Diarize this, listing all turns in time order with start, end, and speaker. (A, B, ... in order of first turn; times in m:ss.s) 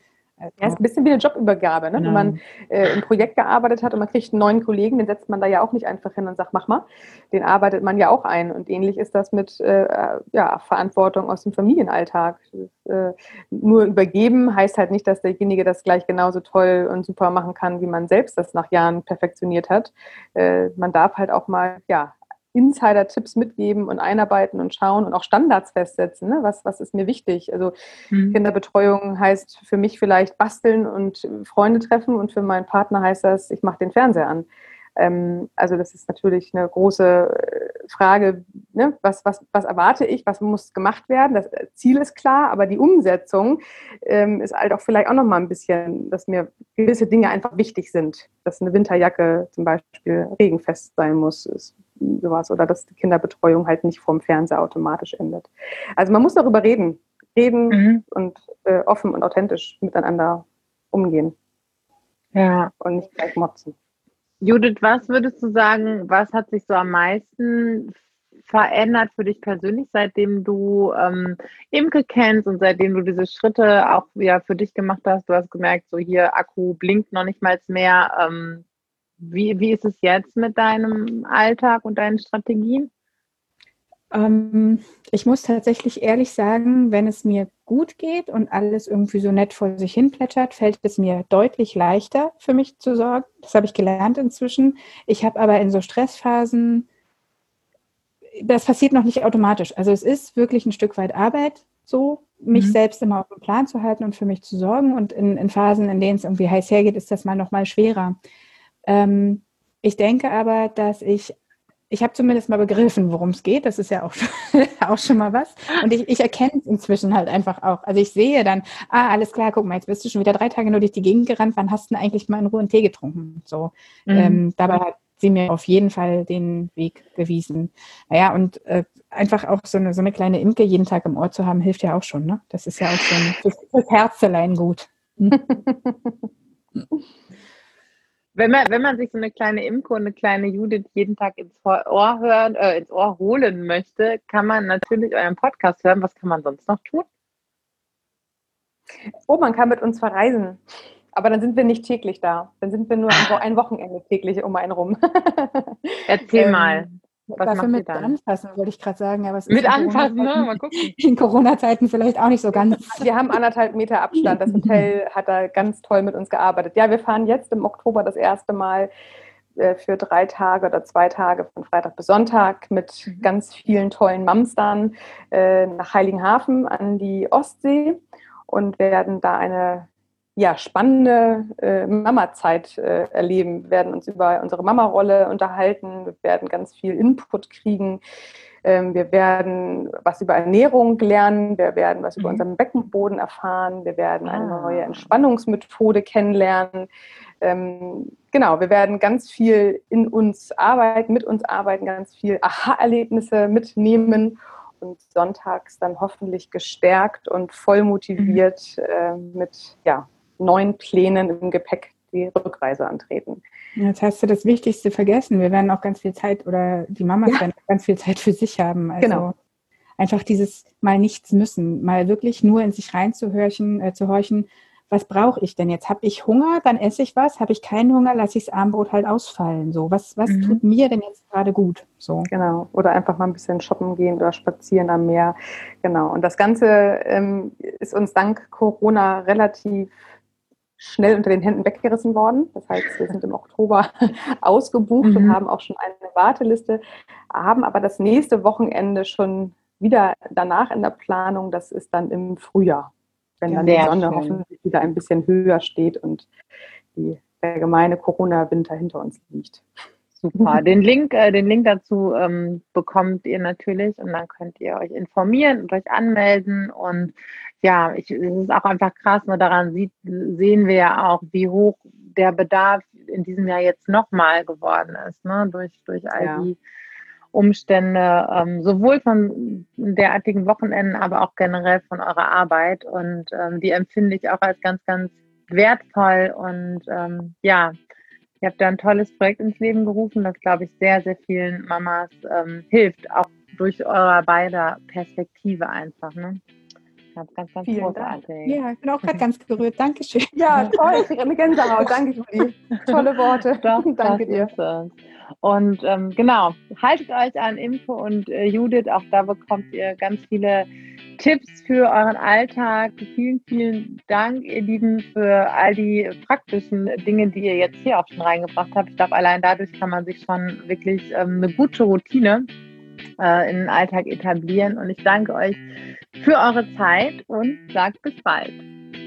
0:00.4-0:00.8 A
0:00.6-0:27.7 B
0:02.0-0:02.3 A
0:28.1-0:28.4 C
0:28.3-1:01.3 B
0:57.7-0:58.0 C
1:02.3-1:02.7 C
1:02.8-1:03.7 B
1:04.4-1:18.6 C
1:19.2-1:22.9 C
1:24.1-1:36.8 A
1:38.3-1:48.2 A
1:48.9-1:51.4 A
1:51.9-2:15.4 A
2:04.1-2:04.4 C
2:15.4-2:16.1 B
2:18.3-2:27.0 C
2:29.3-2:30.6 B
2:31.1-2:36.8 B
2:36.1-2:38.1 C
2:37.3-2:43.1 A
2:39.5-2:40.9 C
2:42.9-2:48.9 B
2:44.2-2:44.9 A
2:49.6-3:08.0 B
3:08.6-3:16.9 B
3:12.2-3:12.4 C
3:14.2-3:15.1 C
3:17.4-3:33.4 B
3:33.8-3:39.3 A
3:39.0-3:39.3 B
3:40.0-3:52.3 A
3:50.3-3:50.6 C
3:52.3-3:59.9 B
4:00.8-4:06.8 B
4:05.0-4:05.4 C
4:07.3-4:16.3 B
4:13.5-4:14.4 C
4:17.0-4:19.6 B
4:20.2-4:36.6 C
4:36.1-4:36.5 B
4:37.3-4:47.7 C
4:48.4-4:56.4 C
4:57.2-4:59.2 C
4:57.6-4:58.2 B
4:58.4-5:01.0 A
5:00.4-5:04.5 B
5:03.6-5:22.4 C
5:23.2-5:25.6 C
5:26.2-5:28.6 C